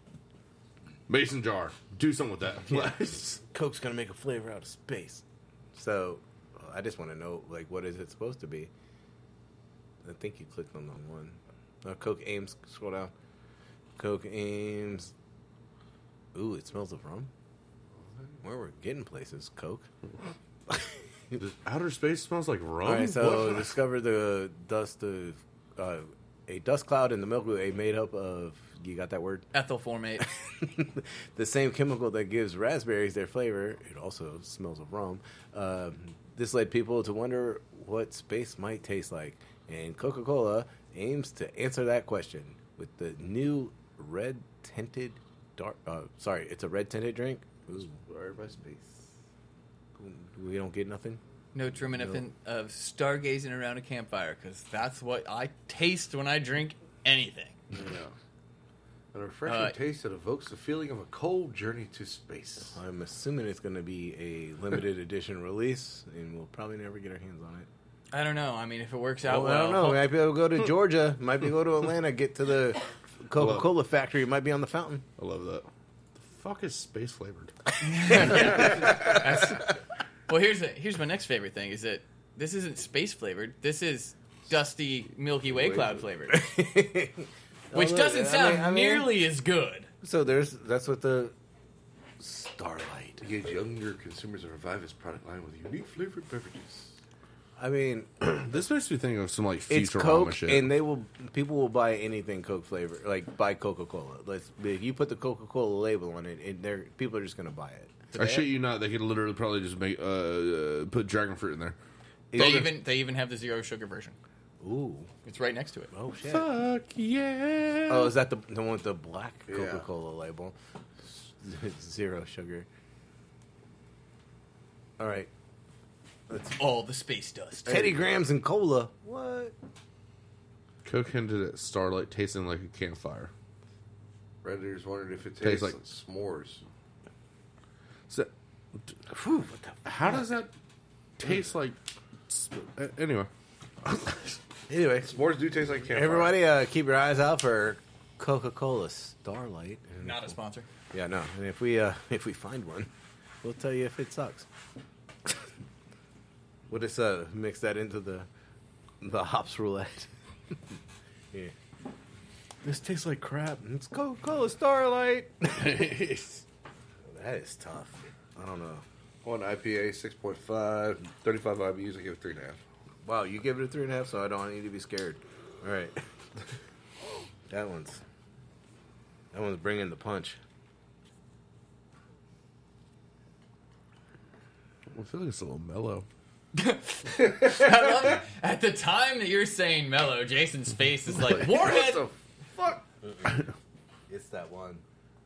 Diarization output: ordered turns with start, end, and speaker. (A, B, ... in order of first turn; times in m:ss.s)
0:01.1-0:03.4 A
0:02.7-0:05.2 B
0:05.8-0:08.7 B
0:10.0-0:13.1 B
0:14.0-0:15.1 B
0:16.3-0:17.3 B
0:18.4-0:19.9 B
0:20.7-0:21.4 B
0:21.3-0:23.7 A
0:22.8-0:29.4 B
0:29.5-0:30.3 C
0:30.2-0:47.9 B
0:47.7-0:49.0 D
0:50.0-0:51.2 B
0:51.5-0:57.6 C
0:57.7-0:58.1 D
0:59.1-1:02.8 D
0:59.5-0:59.8 C
1:02.7-1:07.7 B
1:08.1-1:10.1 C
1:09.2-1:15.0 B
1:13.4-1:13.8 A
1:15.2-1:17.5 A
1:17.8-1:19.7 C
1:18.0-1:19.2 B
1:20.3-1:26.4 C
1:26.3-1:29.1 B
1:27.7-1:29.9 C
1:30.0-1:31.3 B
1:32.2-1:33.2 B
1:33.2-1:36.9 D
1:37.6-1:38.5 B
1:38.4-1:40.7 A
1:39.7-1:48.1 B
1:48.1-1:48.5 C
1:48.2-1:51.8 A
1:52.3-1:52.8 B
1:52.4-1:54.2 C
1:54.6-1:55.1 B
1:55.2-1:55.9 C
1:55.9-1:56.5 B
1:56.2-1:58.2 A
1:57.9-2:02.7 B
1:59.5-1:59.9 D
2:05.0-2:05.3 B
2:06.3-2:06.6 B
2:06.6-2:07.8 C
2:07.6-2:09.5 B
2:10.8-2:13.3 A
2:14.4-2:16.6 D
2:15.4-2:15.8 A
2:18.1-2:19.0 A
2:19.1-2:20.2 B
2:19.8-2:20.5 A
2:21.2-2:23.3 A
2:23.8-2:24.4 A
2:24.7-2:25.2 B
2:25.0-2:26.4 D
2:25.9-2:30.3 B
2:30.0-2:30.7 C
2:30.9-2:32.9 B
2:33.4-2:34.5 B
2:36.7-2:38.3 B
2:39.0-2:40.1 B
2:42.6-2:45.8 B
2:45.5-2:46.4 A
2:47.1-2:48.8 B
2:49.2-2:52.6 D
2:53.0-2:56.0 B
2:57.5-2:58.0 B
2:59.3-3:00.4 B
3:04.9-3:06.1 A
3:06.6-3:12.0 C
3:07.2-3:07.8 D
3:11.1-3:12.9 D
3:14.1-3:14.8 B